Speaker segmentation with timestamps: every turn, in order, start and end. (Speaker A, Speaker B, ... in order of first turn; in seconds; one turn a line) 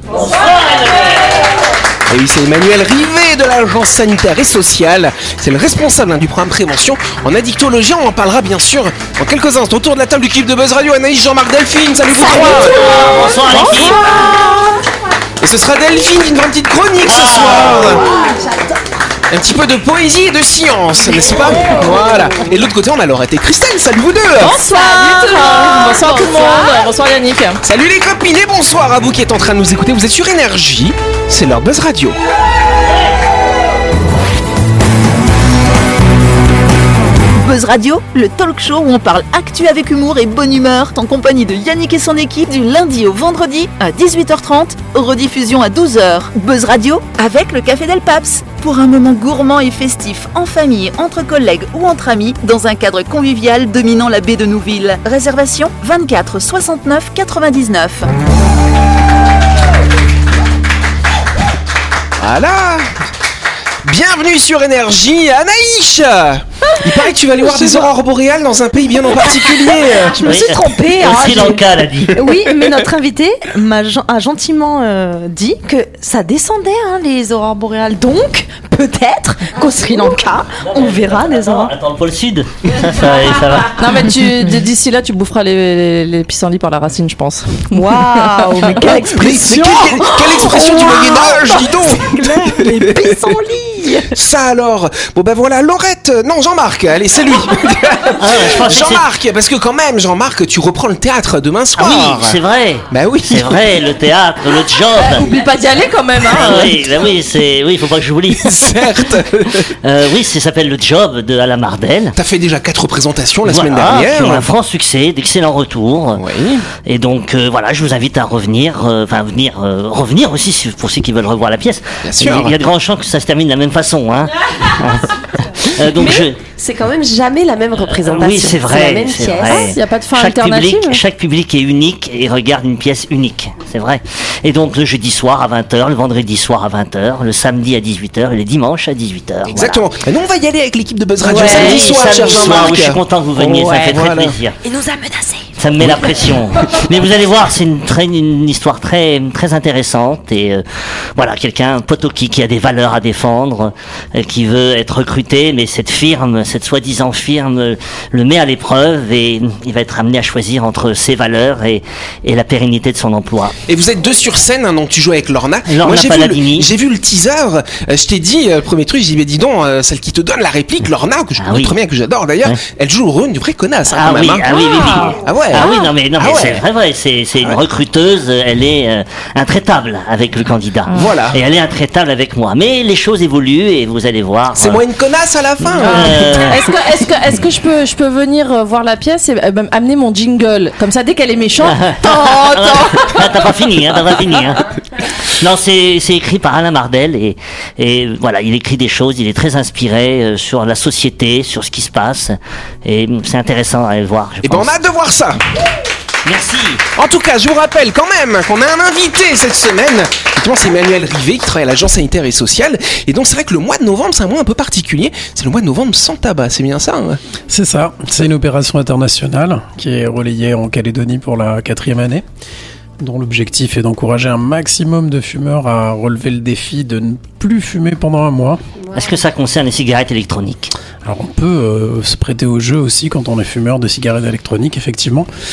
Speaker A: 0.2-1.3
Speaker B: 2.1-12.9
Speaker A: 12.2-14.3
Speaker B: 15.4-18.1
Speaker A: 17.0-18.1
Speaker C: 18.0-18.7
Speaker B: 19.3-24.6
Speaker C: 21.2-22.2
Speaker D: 24.4-27.6
Speaker C: 24.5-26.9
Speaker B: 27.6-32.2
Speaker E: 37.4-58.1
Speaker B: 62.2-62.9
Speaker B: 63.8-70.5
Speaker C: 67.4-67.8
Speaker C: 69.2-81.7
Speaker A: 70.2-72.2
Speaker A: 80.6-84.1
Speaker D: 83.8-88.9
Speaker C: 87.7-94.1
Speaker B: 89.1-93.3
Speaker B: 94.1-102.4
Speaker A: 98.2-99.0
Speaker A: 101.8-105.3
Speaker B: 102.9-103.6
Speaker D: 105.0-106.8
Speaker A: 106.3-109.1
Speaker B: 108.4-109.7
Speaker A: 109.8-112.1
Speaker B: 112.2-114.5
Speaker A: 113.4-116.2
Speaker B: 116.2-116.7
Speaker A: 116.8-126.4
Speaker B: 122.0-122.5
Speaker F: 125.8-129.7
Speaker A: 127.8-139.8
Speaker D: 129.4-131.0
Speaker B: 139.4-144.3
Speaker A: 141.2-144.6
Speaker C: 144.6-146.3
Speaker A: 145.6-150.6
Speaker A: 151.2-163.5
Speaker B: 163.7-174.6
Speaker A: 165.7-166.7
Speaker A: 171.4-171.8
Speaker A: 173.9-184.8
Speaker C: 174.5-175.0
Speaker B: 175.2-176.6
Speaker C: 175.6-175.8
Speaker B: 180.9-181.4
Speaker B: 184.6-186.6
Speaker A: 185.6-186.6
Speaker D: 185.8-193.4
Speaker A: 191.7-204.8
Speaker B: 204.4-205.4
Speaker A: 206.2-206.8
Speaker B: 206.9-217.2
Speaker G: 217.5-222.2
Speaker G: 223.0-228.6
Speaker F: 228.8-229.1
Speaker A: 228.9-230.7
Speaker G: 231.0-235.3